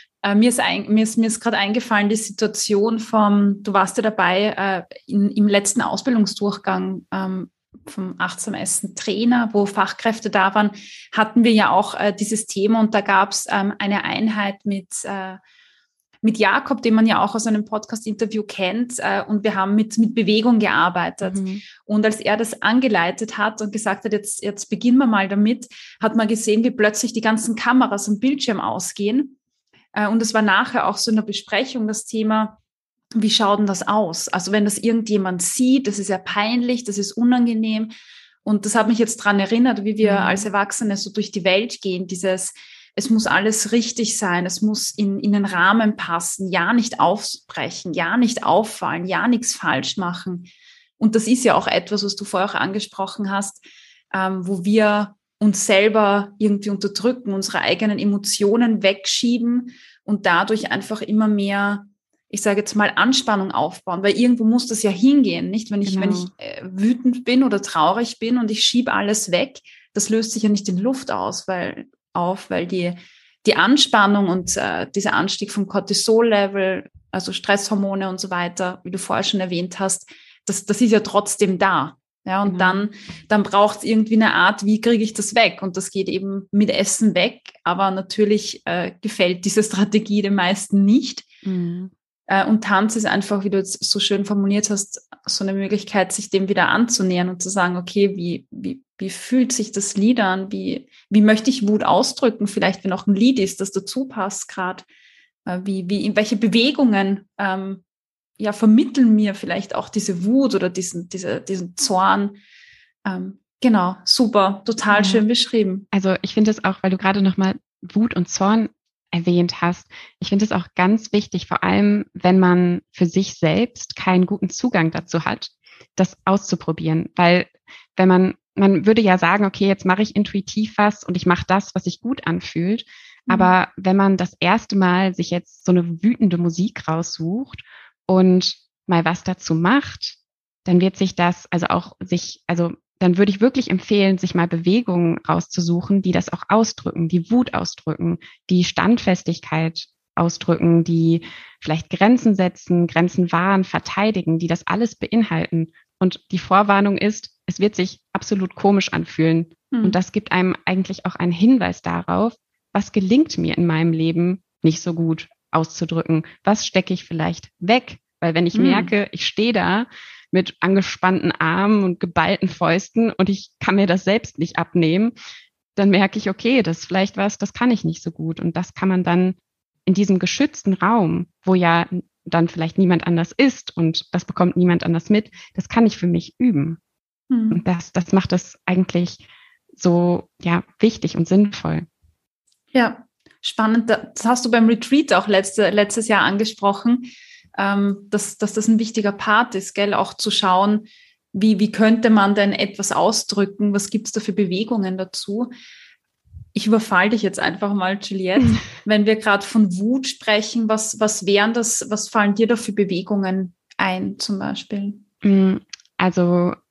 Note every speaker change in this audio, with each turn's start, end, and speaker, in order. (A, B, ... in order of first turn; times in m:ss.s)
0:00.2-0:15.4 A
0:16.2-0:29.4 A
0:21.2-0:21.6 B
0:29.9-0:32.6 A
0:33.2-0:37.9 A
0:38.4-1:31.3 A
0:40.0-0:40.5 B
1:05.8-1:06.3 B
1:22.4-1:22.9 B
1:31.4-1:31.9 B
1:32.3-1:44.8 A
1:45.4-1:47.8 A
1:48.4-1:52.4 A
1:53.0-1:55.8 A
1:54.9-1:55.2 B
1:55.9-2:55.1 B
2:13.3-2:13.5 A
2:39.7-2:40.0 A
2:48.5-2:48.9 A
2:55.8-3:06.8 B
3:07.3-3:07.6 A
3:07.5-3:09.2 B
3:09.8-3:11.8 B
3:12.7-3:25.5 A
3:26.5-3:35.0 A
3:35.2-3:36.6 B